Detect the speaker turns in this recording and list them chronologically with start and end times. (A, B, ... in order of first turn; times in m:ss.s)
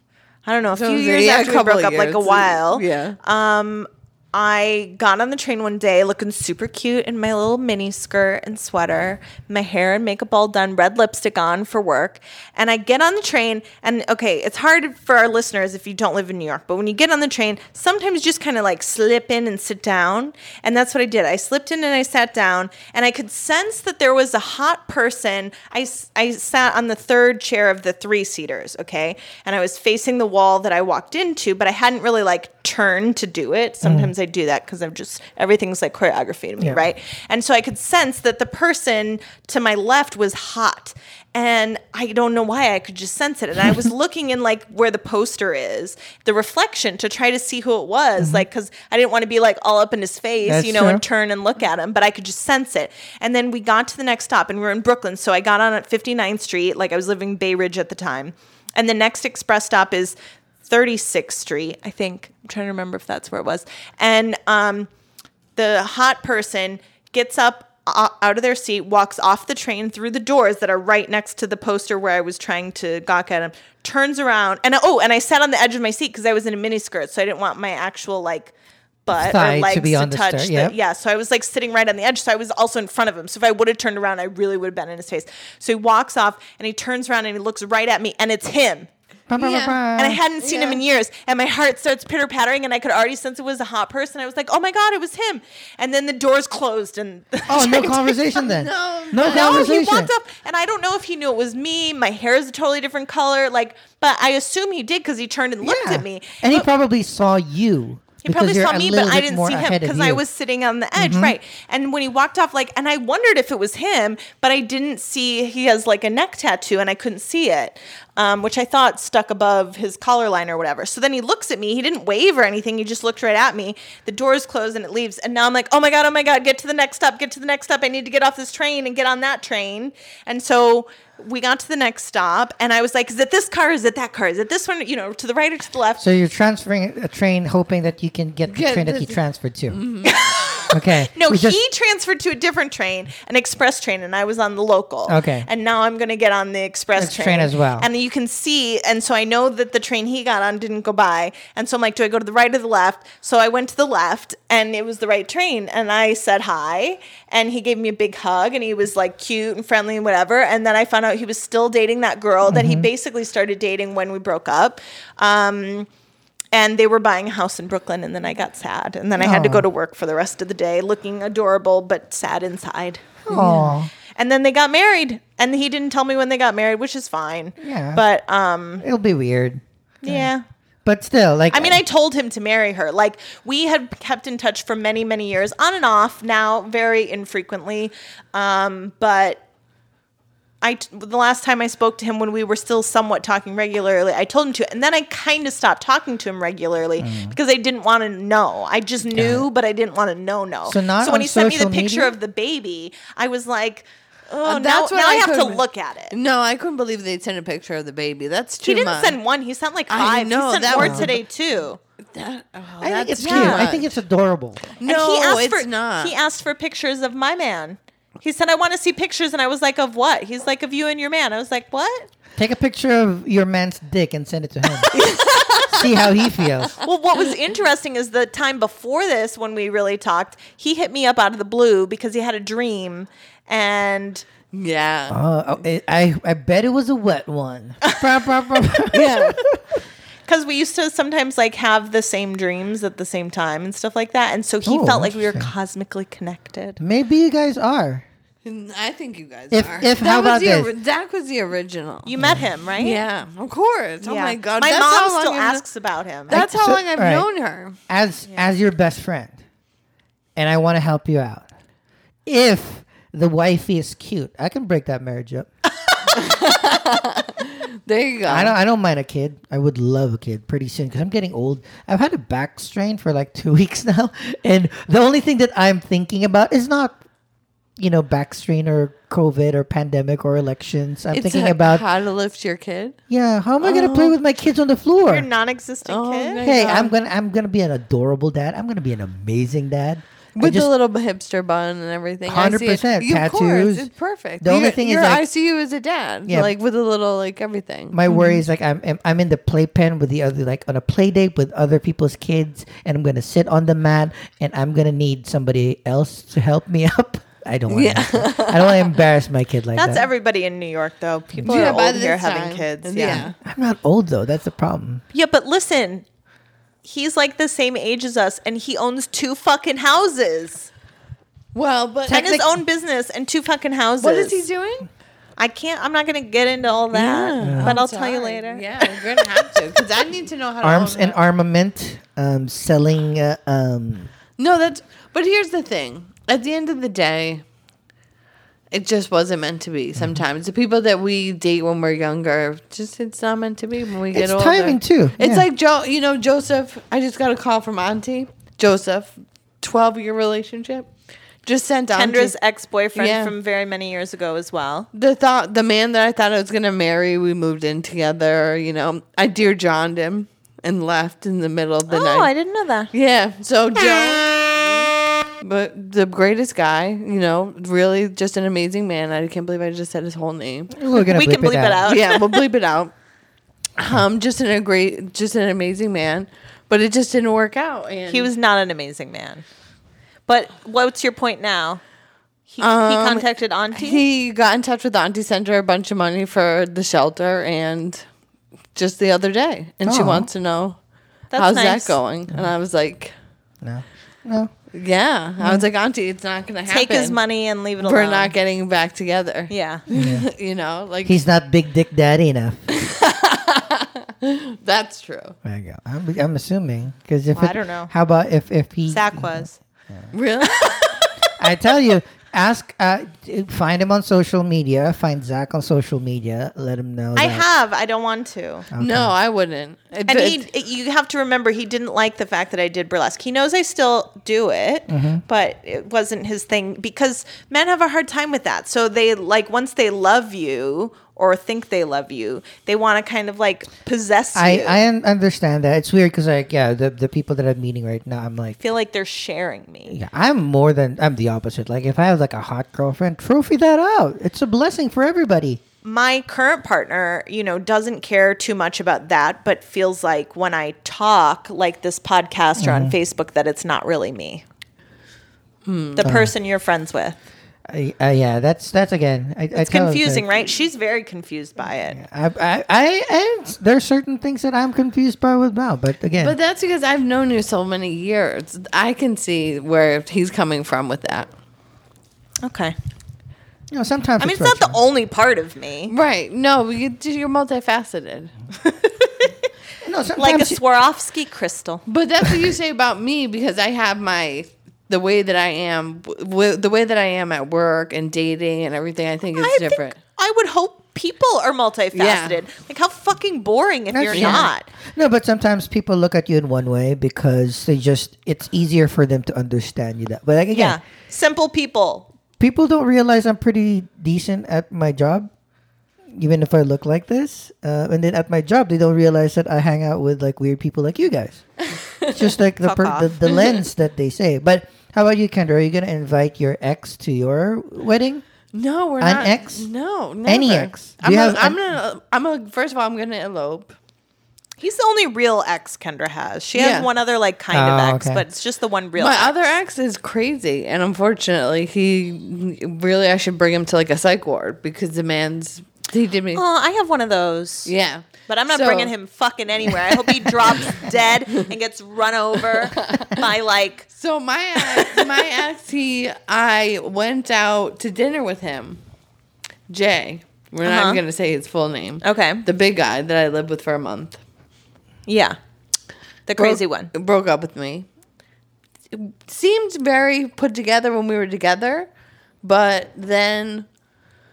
0:00.4-1:00.2 A
0:00.7-0:03.2 B
0:33.8-0:34.1 C
0:48.2-0:48.4 C
0:50.4-0:51.0 C
1:00.7-1:04.9 A
1:05.6-1:18.5 A
1:19.0-1:28.9 A
1:19.1-1:20.8 C
1:29.3-1:30.2 C
1:29.4-1:29.8 B
1:30.0-1:38.2 A
1:30.4-1:30.8 B
1:37.5-1:40.1 C
1:38.3-1:39.8 B
1:39.2-1:46.7 A
1:45.6-1:50.2 C
1:48.2-2:16.0 A
1:51.0-1:51.3 C
2:16.0-2:19.8 C
2:18.5-2:20.2 B
2:20.0-2:45.9 A
2:20.7-2:21.6 C
2:25.1-2:25.5 C
2:27.0-2:27.9 C
2:42.4-2:42.9 C
2:46.5-2:58.8 A
2:49.2-2:49.6 C
2:53.3-2:53.9 C
2:57.6-2:58.0 C
2:58.8-3:00.3 C
3:00.0-3:00.4 A
3:00.8-3:01.8 C
3:01.5-3:09.4 A
3:10.6-3:26.1 A
3:17.0-3:17.3 C
3:19.1-3:19.4 C
3:20.7-3:22.2 C
3:24.4-3:29.2 B
3:28.6-3:31.8 A
3:29.9-3:31.2 B
3:30.7-3:31.1 C
3:32.0-3:34.0 B
3:32.8-3:34.7 C
3:33.2-3:33.7 A
3:34.7-3:36.2 B
3:34.8-3:42.1 A
3:42.4-3:45.0 C
3:44.9-3:46.7 B
3:45.6-3:46.8 C
3:46.8-3:54.2 A
3:54.5-3:55.2 B
3:55.1-3:59.6 C
3:58.9-3:59.4 B
4:00.3-4:06.8 A
4:04.6-4:05.5 C
4:06.8-4:08.0 C
4:08.4-4:12.1 B
4:09.5-4:10.7 C
4:12.0-4:13.0 A
4:12.8-4:15.6 B
4:14.0-4:16.4 A
4:16.3-4:17.8 B
4:16.3-4:17.3 C
4:17.9-4:19.4 C
4:20.4-4:21.5 C
4:22.2-4:25.5 C
4:26.1-4:28.5 B
4:28.2-4:37.0 C
4:37.8-4:41.8 C
4:41.1-4:43.0 B
4:43.1-4:45.3 C
4:43.6-4:44.2 B
4:45.1-4:46.4 A
4:45.8-4:47.0 B
4:46.4-4:50.7 C
4:50.3-4:58.3 B
4:52.3-4:53.9 C
4:54.4-4:55.2 C
4:56.2-4:56.5 C
4:57.9-5:10.0 C
5:07.7-5:08.9 B
5:09.7-5:13.3 A
5:11.3-5:11.8 C
5:11.4-5:13.4 B
5:13.0-5:15.0 C
5:15.1-5:16.0 A
5:16.8-5:20.7 A
5:21.5-5:22.4 B
5:22.1-5:24.4 A
5:22.1-5:22.4 C
5:24.0-5:24.9 B
5:25.4-5:29.4 A
5:26.9-5:31.2 B
5:27.4-5:27.8 C
5:30.6-5:34.1 C
5:34.4-5:37.4 B
5:38.7-5:50.9 B
5:44.1-5:45.4 C
5:51.4-5:52.3 B
5:51.9-5:54.9 A
5:53.0-5:53.3 B
5:54.9-6:02.3 B
6:01.9-6:02.9 A
6:02.9-6:10.8 B
6:10.7-6:11.9 C
6:11.0-6:12.2 A
6:11.8-6:12.9 B
6:13.8-6:18.3 B
6:18.1-6:19.4 A
6:20.3-6:21.8 A
6:22.5-6:24.0 A
6:22.6-6:28.0 B
6:28.7-6:30.8 B
6:29.8-6:30.3 C
6:31.3-6:32.0 A
6:31.3-6:33.1 B
6:33.6-6:34.5 C
6:34.7-6:37.2 B
6:35.4-6:35.7 C
6:36.7-6:38.3 A
6:37.8-6:41.2 B
6:39.5-6:39.8 A
6:39.9-6:40.3 C
6:41.0-6:42.7 C
6:42.7-6:45.4 B
6:45.4-6:50.1 C
6:47.3-6:47.9 A
6:48.9-6:49.6 A
6:50.1-6:51.2 B
6:51.4-6:57.4 C
6:57.2-6:58.7 A
6:58.7-6:59.1 C
6:58.8-7:00.4 B
7:00.0-7:14.8 A
7:04.9-7:05.2 C
7:14.3-7:18.6 C
7:18.6-7:20.0 A
7:19.9-7:25.6 C
7:25.8-7:34.4 A
7:32.6-7:32.9 C
7:35.6-7:36.1 B
7:36.0-7:37.2 A
7:36.0-7:36.3 C
7:37.7-7:40.3 C
7:39.5-7:42.0 A
7:41.9-7:46.4 C
7:46.2-7:51.3 B
7:52.4-7:52.7 A
7:53.7-7:54.8 C
7:54.2-7:55.9 A
7:55.9-7:58.3 B
7:59.8-8:00.6 C
8:00.2-8:01.8 A
8:01.9-8:10.0 B
8:09.3-8:14.7 A
8:11.9-8:12.4 B
8:13.9-8:20.8 C
8:14.1-8:14.5 B
8:20.5-8:22.1 A
8:22.4-8:25.3 C
8:26.1-8:31.4 C
8:32.0-8:32.2 B
8:32.0-8:38.2 C
8:32.6-8:33.3 A
8:33.3-8:33.6 B
8:38.5-8:43.7 B
8:39.0-8:39.7 C
8:40.2-8:41.6 C
8:44.6-8:49.3 A
8:46.5-8:46.9 B
8:47.5-8:48.2 C
8:49.0-8:56.4 B
8:56.3-8:57.7 A
8:57.6-8:58.9 B
8:58.3-9:03.9 A
8:59.6-9:01.5 B
9:02.5-9:03.3 B
9:03.9-9:08.8 B
9:04.6-9:05.3 A
9:09.7-9:14.2 B
9:10.6-9:11.0 A
9:12.0-9:12.4 A
9:15.1-9:15.4 A
9:16.3-9:16.9 A
9:16.4-9:17.8 B
9:18.9-9:21.9 B
9:22.4-9:23.6 B